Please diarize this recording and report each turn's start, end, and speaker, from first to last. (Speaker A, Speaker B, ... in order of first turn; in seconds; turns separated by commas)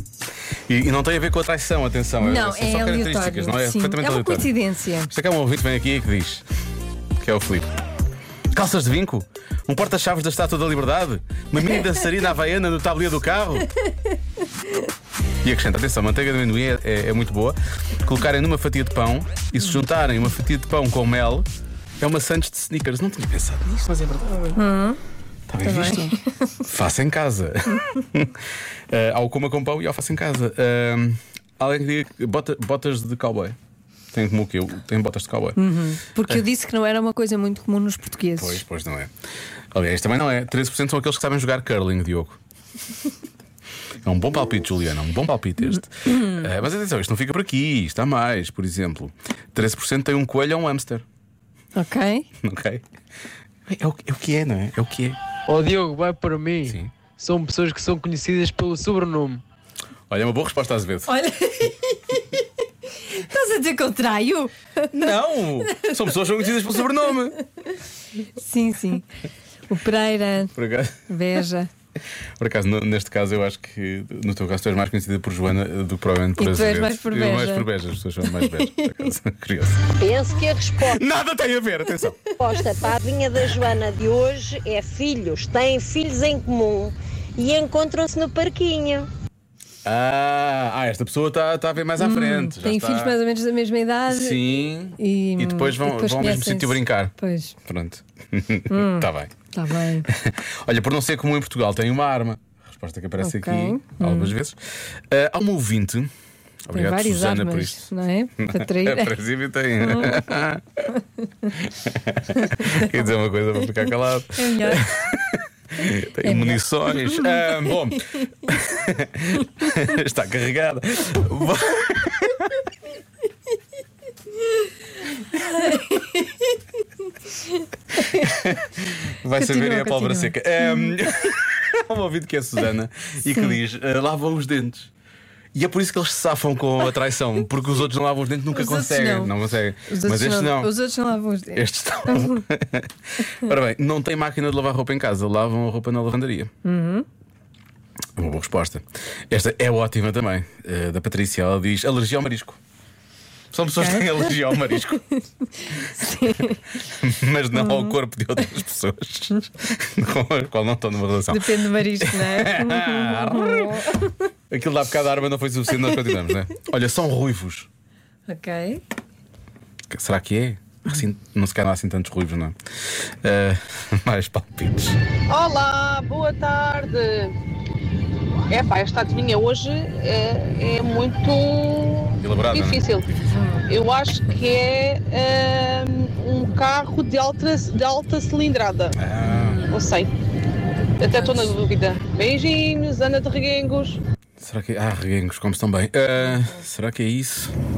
Speaker A: 0.7-4.5, Speaker B: 2.2-5.1, Speaker A: 5.1-6.4, Speaker A: 7.2-7.7, Speaker A: 8.5-13.7, Speaker A: 15.4-21.4, Speaker A: 22.0-24.6, Speaker B: 24.5-25.0, Speaker A: 25.5-26.2, Speaker B: 25.6-26.6, Speaker A: 26.7-33.5, Speaker A: 34.1-35.6, Speaker B: 35.5-38.6, Speaker A: 38.4-39.1, Speaker A: 39.7-42.4, Speaker A: 44.0-51.0, Speaker B: 46.1-46.4, Speaker B: 51.8-52.3, Speaker A: 52.4-52.8, Speaker A: 53.7-55.2, Speaker C: 55.5-59.4, Speaker A: 56.7-56.9, Speaker A: 60.1-61.1, Speaker B: 61.1-65.1, Speaker A: 64.9-67.4, Speaker B: 68.3-69.0, Speaker B: 69.7-70.5, Speaker A: 70.5-70.9, Speaker B: 71.1-71.7, Speaker A: 72.4-79.9, Speaker B: 76.4-77.7, Speaker B: 78.3-79.1, Speaker D: 80.0-81.0, Speaker A: 80.8-82.2, Speaker D: 82.4-89.1, Speaker A: 89.8-93.2, Speaker B: 92.0-94.4, Speaker A: 94.1-97.1, Speaker B: 95.0-97.5, Speaker A: 97.6-99.3, Speaker B: 98.7-100.1, Speaker A: 100.1-104.6, Speaker B: 103.2-104.3, Speaker A: 105.1-106.1, Speaker A: 106.6-110.8, Speaker B: 106.7-109.2, Speaker B: 109.8-110.4, Speaker A: 111.6-122.5, Speaker B: 112.4-113.0, Speaker B: 114.3-114.8, Speaker B: 116.2-117.8, Speaker B: 124.5-126.6, Speaker B: 127.3-128.2, Speaker A: 128.1-134.9, Speaker B: 129.3-130.9, Speaker A: 135.5-140.7, Speaker B: 138.5-139.3, Speaker B: 139.9-142.4, Speaker A: 141.5-146.5, Speaker B: 146.6-147.1, Speaker A: 148.2-152.6, Speaker A: 153.5-155.0, Speaker B: 153.8-154.8, Speaker B: 155.4-156.8, Speaker A: 156.9-163.9, Speaker B: 157.5-158.0, Speaker B: 161.3-164.1, Speaker A: 164.5-167.7, Speaker B: 168.3-168.8, Speaker A: 169.9-175.0, Speaker E: 175.3-177.3, Speaker E: 178.5-183.1, Speaker A: 182.2-183.2, Speaker B: 183.3-183.6, Speaker E: 183.7-188.9, Speaker A: 188.9-189.7, Speaker E: 189.7-190.1, Speaker E: 191.0-194.0, Speaker B: 191.2-191.5, Speaker A: 194.4-197.5